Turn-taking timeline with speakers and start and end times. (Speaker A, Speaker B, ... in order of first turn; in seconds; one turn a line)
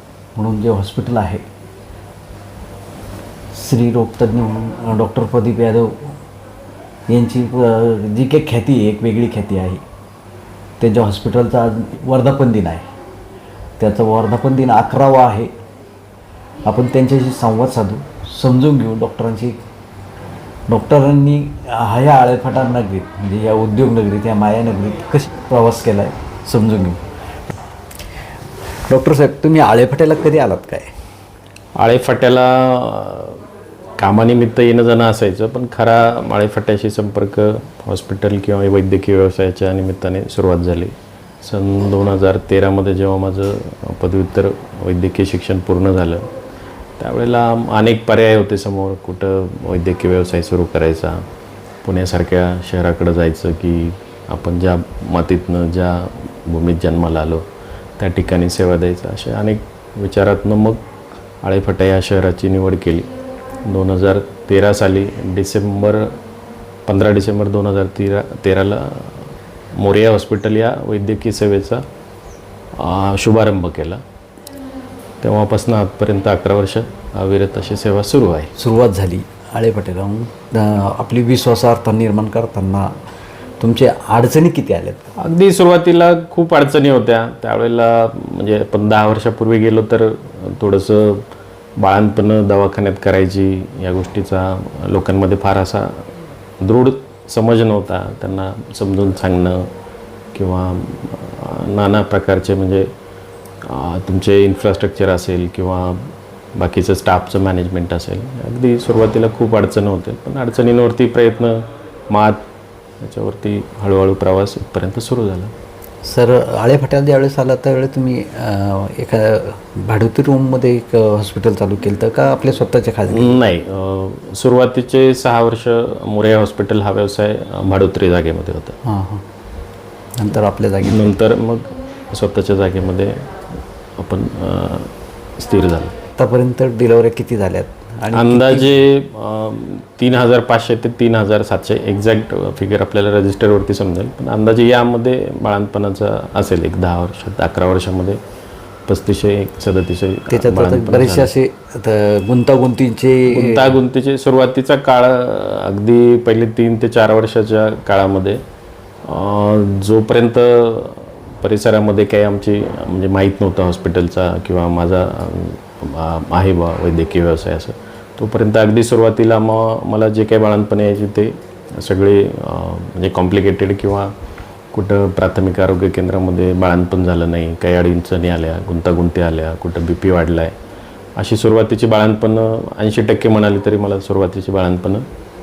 Speaker A: 0.3-1.4
Speaker A: 3.5-6.1
Speaker A: 7.1-9.8
Speaker A: 10.8-12.8
Speaker A: 13.8-15.5
Speaker A: 16.6-19.6
Speaker A: 20.7-27.0
Speaker A: 28.9-30.9
Speaker B: 31.8-33.4
Speaker B: 34.0-46.2
Speaker B: 47.0-51.2
Speaker B: 51.8-57.4
Speaker B: 58.0-60.8
Speaker B: 61.4-63.1
Speaker B: 63.6-66.2
Speaker B: 66.9-71.8
Speaker B: 72.8-74.0
Speaker B: 75.2-78.5
Speaker A: 78.6-82.9
Speaker A: 83.6-85.1
Speaker B: 85.2-91.2
Speaker B: 91.8-96.0
Speaker B: 96.6-99.7
Speaker B: 100.3-102.9
Speaker B: 103.6-112.4
Speaker B: 113.0-115.5
Speaker A: 116.0-123.4
Speaker B: 123.1-128.7
Speaker A: 128.8-129.2
Speaker A: 130.2-131.1
Speaker B: 130.8-133.2
Speaker B: 134.0-135.9
Speaker A: 136.2-138.8
Speaker B: 138.1-148.2
Speaker B: 148.9-151.3
Speaker A: 150.3-153.8
Speaker B: 153.3-158.4
Speaker B: 159.0-174.1
Speaker B: 174.7-180.5
Speaker B: 181.2-185.0